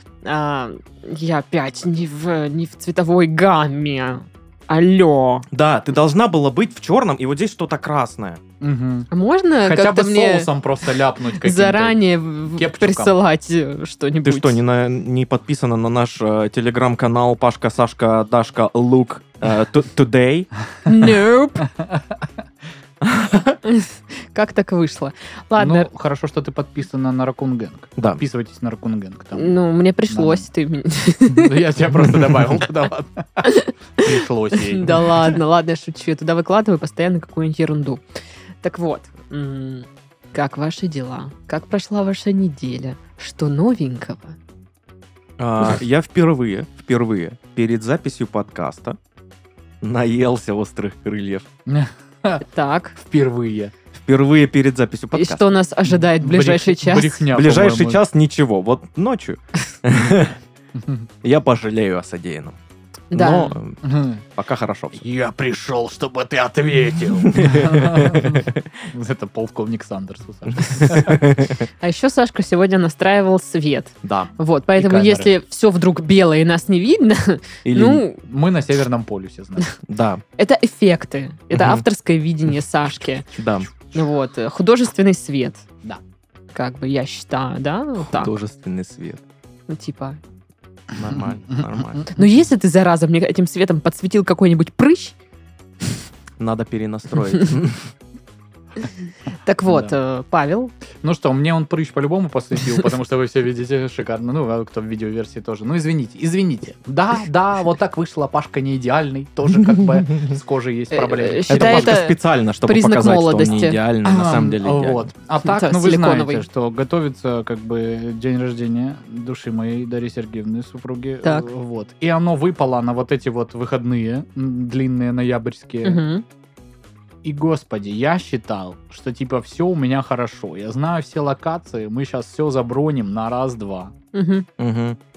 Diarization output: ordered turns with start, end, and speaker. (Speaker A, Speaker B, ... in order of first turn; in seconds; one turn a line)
Speaker A: 0.2-5.5
Speaker B: 5.5-8.4
Speaker C: 8.6-9.1
Speaker A: 9.1-10.5
Speaker C: 9.6-13.1
Speaker A: 11.3-14.6
Speaker B: 14.2-20.5
Speaker A: 20.9-21.6
Speaker C: 21.8-22.1
Speaker B: 23.0-23.6
Speaker A: 23.6-25.9
Speaker C: 25.6-29.5
Speaker A: 29.4-31.6
Speaker C: 30.1-30.5
Speaker C: 31.3-35.2
Speaker A: 33.4-38.0
Speaker A: 38.6-44.4
Speaker B: 45.4-49.0
Speaker B: 49.8-51.5
Speaker C: 51.6-52.4
Speaker A: 52.4-53.0
Speaker C: 53.0-53.7
Speaker B: 53.9-55.4
Speaker A: 55.1-57.2
Speaker C: 56.2-58.0
Speaker B: 57.3-60.4
Speaker C: 60.7-61.1
Speaker B: 61.2-62.5
Speaker A: 63.1-63.5
Speaker B: 63.1-63.8
Speaker C: 63.8-64.2
Speaker B: 64.3-65.0
Speaker C: 64.9-71.2
Speaker B: 67.2-68.6
Speaker B: 70.6-71.7
Speaker A: 71.8-78.2
Speaker B: 74.0-74.3
Speaker C: 74.8-75.3
Speaker B: 77.6-78.0
Speaker C: 78.2-79.7
Speaker B: 79.8-80.2
Speaker A: 80.4-83.2
Speaker B: 81.5-81.8
Speaker B: 83.3-83.7
Speaker A: 83.9-85.6
Speaker A: 86.5-88.3
Speaker B: 88.0-89.2
Speaker A: 89.7-90.2
Speaker B: 90.9-92.1
Speaker A: 92.1-95.2
Speaker B: 96.4-97.9
Speaker A: 99.4-100.7
Speaker C: 99.7-99.9
Speaker C: 101.0-112.0
Speaker A: 110.9-113.8
Speaker B: 111.5-115.1
Speaker C: 114.0-126.0
Speaker A: 115.4-116.4
Speaker A: 125.8-126.2
Speaker C: 127.2-133.9
Speaker A: 134.1-134.4
Speaker B: 134.6-135.0